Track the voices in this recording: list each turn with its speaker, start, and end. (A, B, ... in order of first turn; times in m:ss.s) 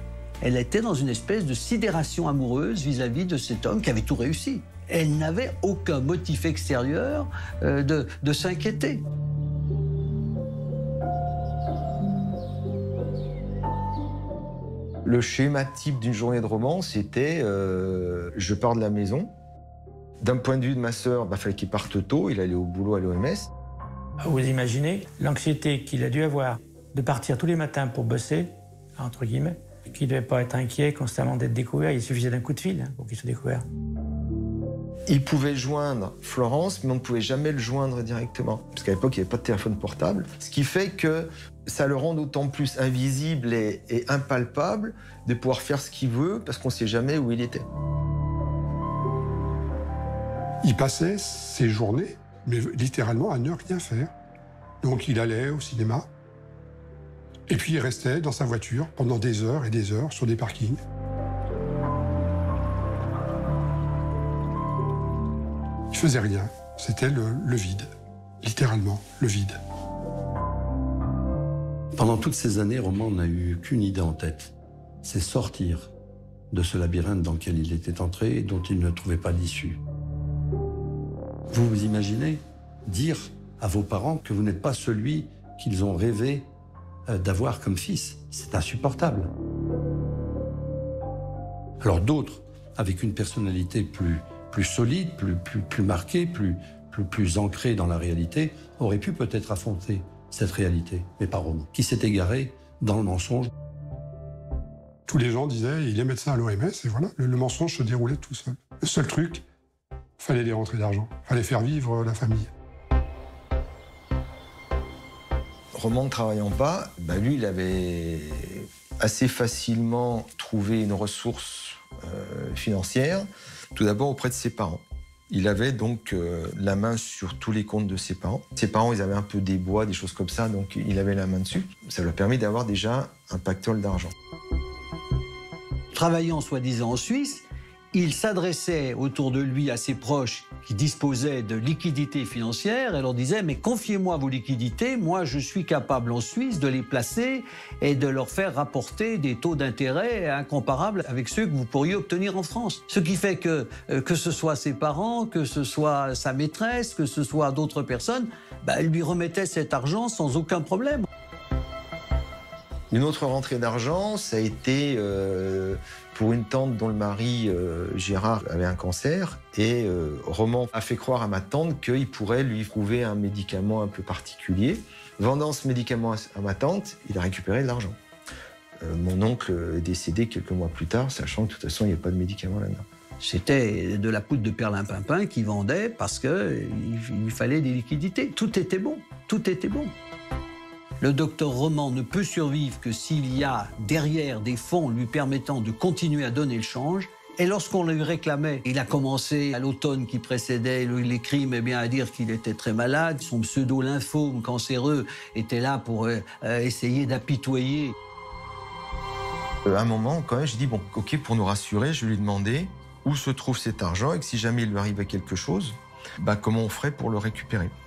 0:00.4-0:09.0 A
0:15.0-0:19.3 B
0:20.2-0:23.5 B
0:24.2-0:33.6 C
0:35.1-0:47.7 B
0:50.6-0:54.1 D
0:54.8-0:56.1 D
0:57.5-1:00.8 D
1:05.9-1:07.9 D
1:08.4-1:09.6 D
1:12.0-1:15.9 E
1:16.5-1:19.8 E
1:21.5-1:26.5 E
1:27.1-1:29.3 E
1:31.8-1:43.5 E
1:45.1-1:49.4 D
1:50.2-1:52.5 D
1:55.7-2:14.1 B
2:15.9-2:41.1 A
2:42.9-2:58.0 B
2:58.8-3:02.8 B
3:03.2-3:09.9 A
3:11.0-3:28.0 A
3:29.6-3:37.7 B